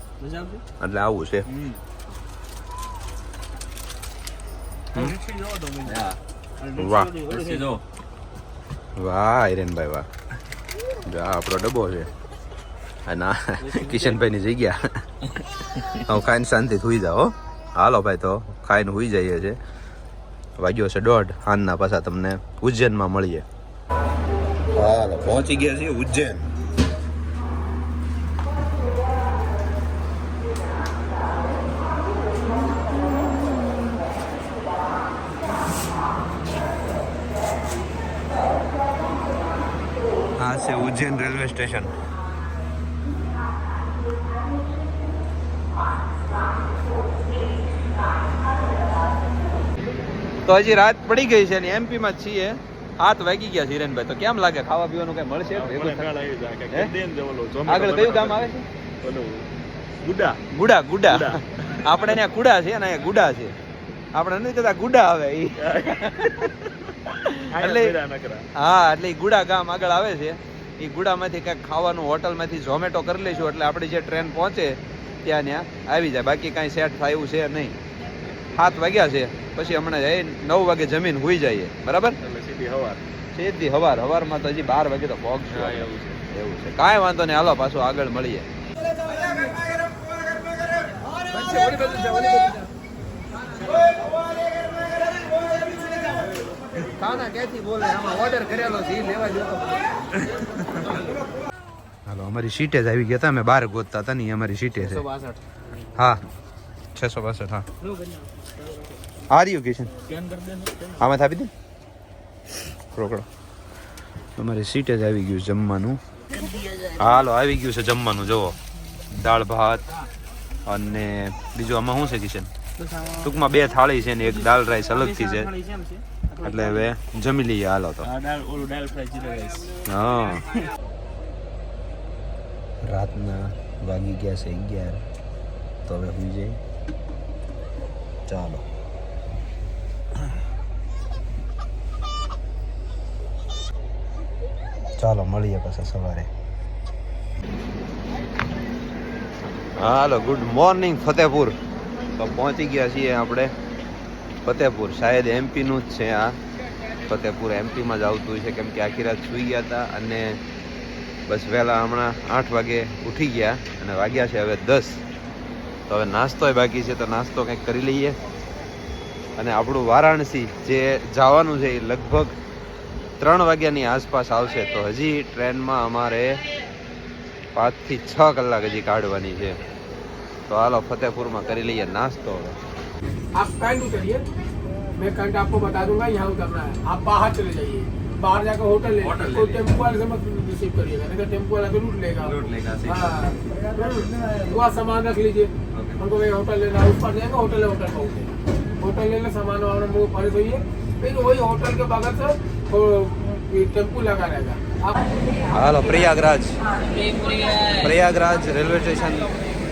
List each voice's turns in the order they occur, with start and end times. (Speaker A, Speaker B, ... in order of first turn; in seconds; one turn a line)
Speaker A: 0.2-0.6
Speaker B: 0.8-1.4
Speaker A: 1.5-1.8
Speaker A: 4.9-7.8
Speaker B: 5.8-6.2
Speaker B: 6.8-7.7
Speaker B: 9.0-10.1
Speaker B: 11.0-12.1
Speaker B: 13.1-19.6
Speaker A: 13.6-14.2
Speaker B: 20.6-23.4
Speaker B: 24.7-26.4
Speaker B: 40.4-41.9
Speaker B: 50.4-56.0
Speaker A: 55.5-59.5
Speaker B: 57.7-58.6
Speaker A: 60.0-60.4
Speaker B: 60.5-63.5
Speaker A: 61.1-62.1
Speaker B: 64.1-65.6
Speaker A: 65.6-68.5
Speaker B: 67.2-67.9
Speaker B: 68.5-77.8
Speaker B: 78.5-82.2
Speaker A: 82.2-83.0
Speaker B: 83.3-88.5
Speaker A: 85.5-86.2
Speaker B: 91.3-92.6
Speaker B: 96.9-101.0
Speaker B: 102.1-105.0
Speaker C: 104.8-105.4
Speaker B: 105.9-106.2
Speaker B: 106.9-107.7
Speaker B: 109.3-109.9
Speaker A: 110.1-111.0
Speaker B: 111.0-111.5
Speaker B: 112.9-113.2
Speaker B: 114.4-116.0
Speaker B: 116.9-118.6
Speaker B: 119.1-119.8
Speaker B: 120.7-122.5
Speaker A: 122.9-123.3
Speaker B: 123.2-125.5
Speaker A: 124.9-126.8
Speaker B: 126.4-128.1
Speaker A: 128.0-129.8
Speaker B: 129.9-130.4
Speaker B: 132.8-135.0
Speaker B: 135.8-136.6
Speaker B: 138.3-138.6
Speaker B: 145.0-146.3
Speaker B: 149.8-151.5
Speaker B: 152.2-153.5
Speaker B: 154.4-156.4
Speaker B: 157.0-160.4
Speaker B: 161.3-165.0
Speaker B: 165.9-168.2
Speaker B: 169.4-172.3
Speaker B: 173.2-176.4
Speaker B: 177.5-179.6
Speaker B: 180.5-182.6
Speaker C: 183.3-184.2
Speaker C: 185.0-192.3
Speaker B: 188.9-189.6
Speaker B: 192.2-193.1
Speaker C: 192.9-204.9
Speaker B: 195.7-196.0
Speaker B: 205.5-206.6
Speaker B: 207.6-209.3